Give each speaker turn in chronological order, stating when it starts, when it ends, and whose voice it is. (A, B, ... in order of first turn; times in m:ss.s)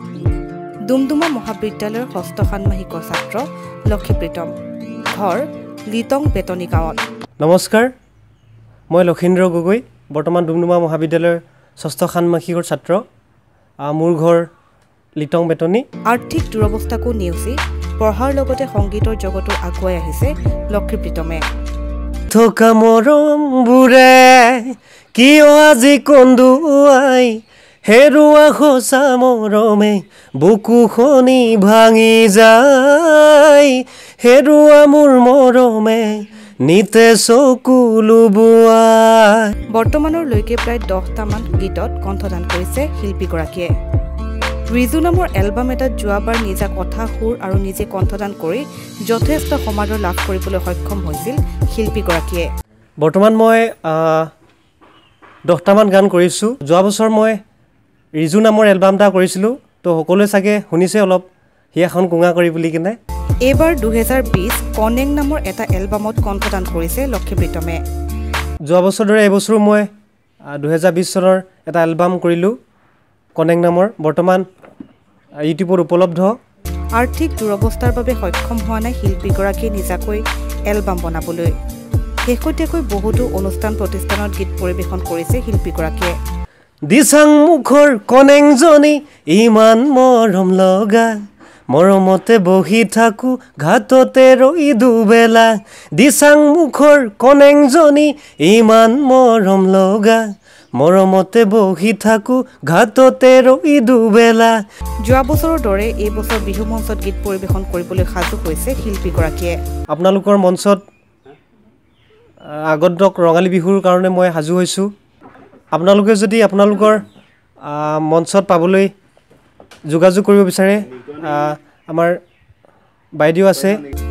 0:00.9-0:04.5 A
0:05.1-0:07.0 A
0:07.4-0:07.9 B
0:08.9-0:13.0 B
0:13.8-0:14.5 B
0:15.2-0:15.8 B
0:16.0-0:21.4 A
0:22.3-0:39.5 B
0:39.7-0:43.7 A
0:44.7-0:52.5 A
0:53.0-0:54.3 B
0:55.5-0:57.4 B
0:58.2-1:03.0 B
1:03.4-1:07.8 A
1:08.7-1:09.9 B
1:10.5-1:12.5 B
1:13.3-1:14.4 B
1:15.4-1:16.4 B
1:17.0-1:21.5 A
1:22.2-1:26.1 A
1:26.9-1:31.2 B
1:31.7-1:40.2 B
1:40.8-1:44.6 B
1:45.0-1:49.6 A
1:49.9-1:50.8 B
1:52.4-1:54.9 B
1:55.7-1:57.0 B
1:57.6-1:58.9 B
1:59.9-2:02.2 B
2:03.2-2:03.8 B